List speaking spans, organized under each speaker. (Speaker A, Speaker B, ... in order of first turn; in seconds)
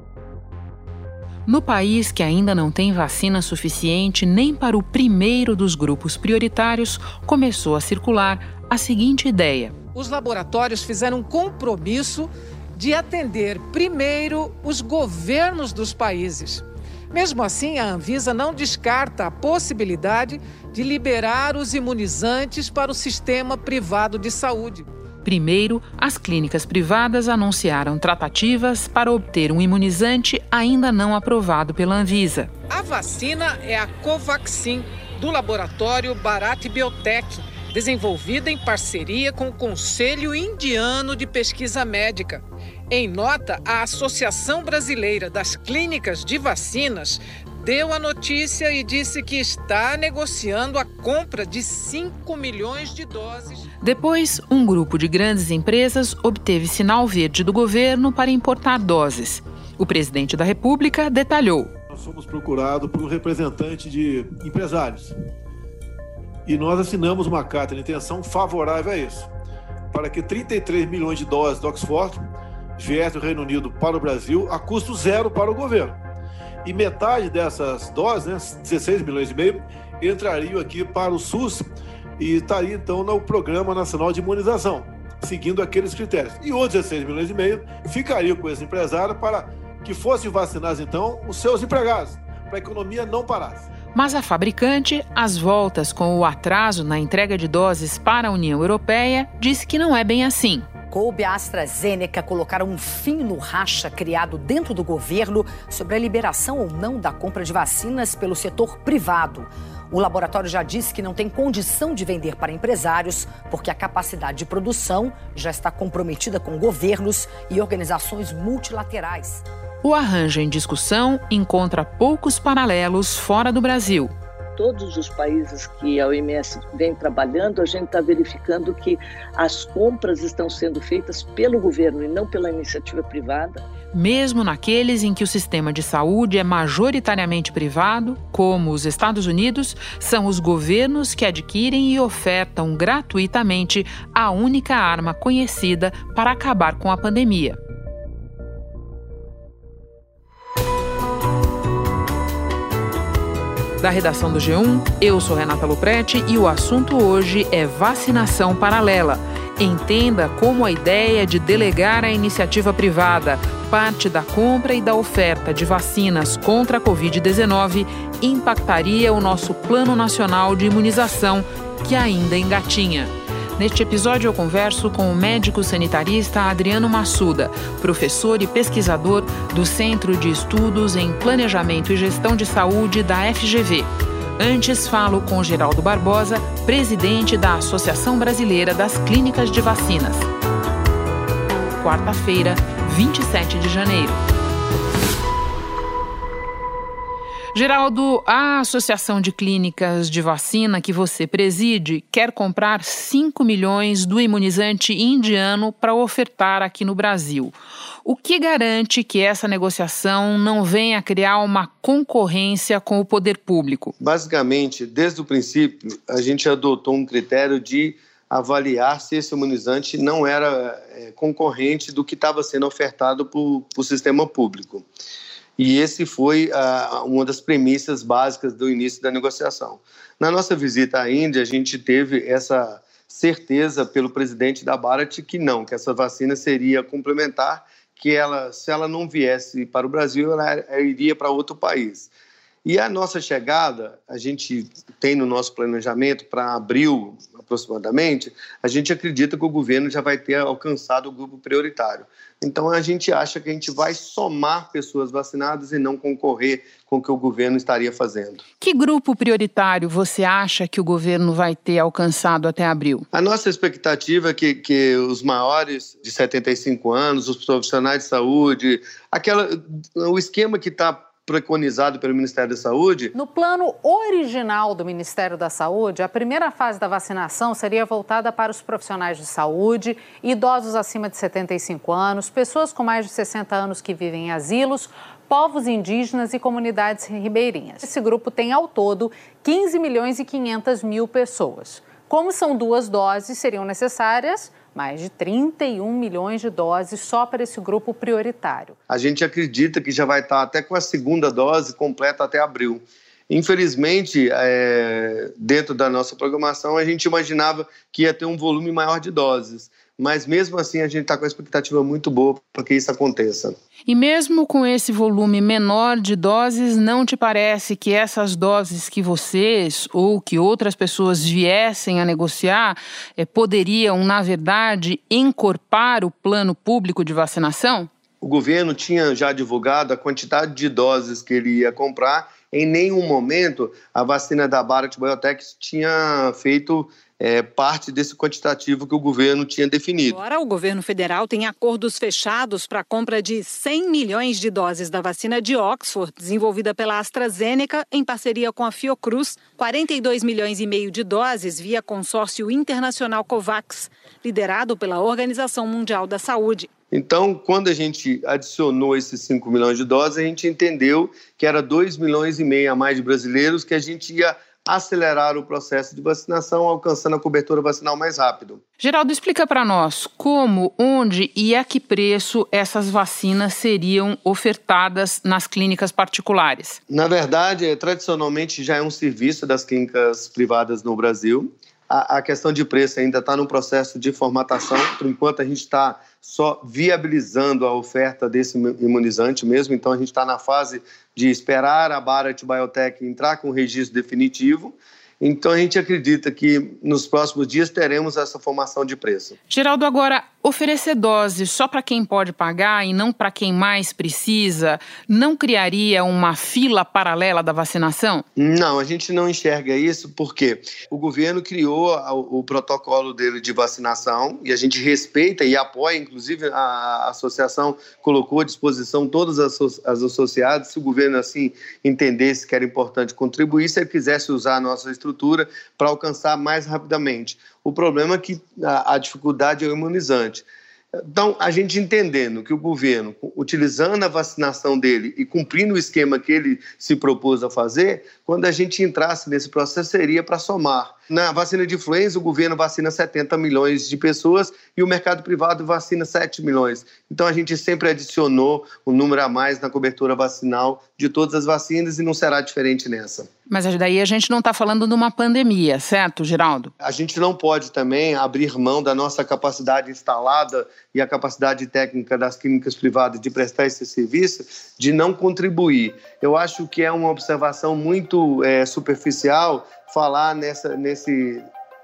Speaker A: 1.5-9.8, 25.2-32.5, 53.8-61.7, 93.9-100.7, 119.8-124.1, 133.9-147.6, 153.8-190.3, 191.6-194.2, 197.5-213.9, 258.6-263.1, 313.9-327.9, 368.8-376.8, 399.5-408.3, 453.5-456.7
Speaker B: 9.9-24.9, 32.7-53.7
Speaker C: 61.9-65.1, 66.5-69.3, 69.9-72.2, 72.8-76.0, 76.6-81.7, 82.2-93.7
Speaker D: 100.9-119.4
Speaker E: 124.6-133.6
Speaker F: 214.0-224.9, 225.6-242.1, 242.7-258.4, 263.1-273.1, 298.9-313.6, 328.2-340.2, 356.9-368.6, 376.9-399.4, 408.4-453.3, 456.8-471.4
Speaker G: 273.1-298.8
Speaker H: 340.1-356.7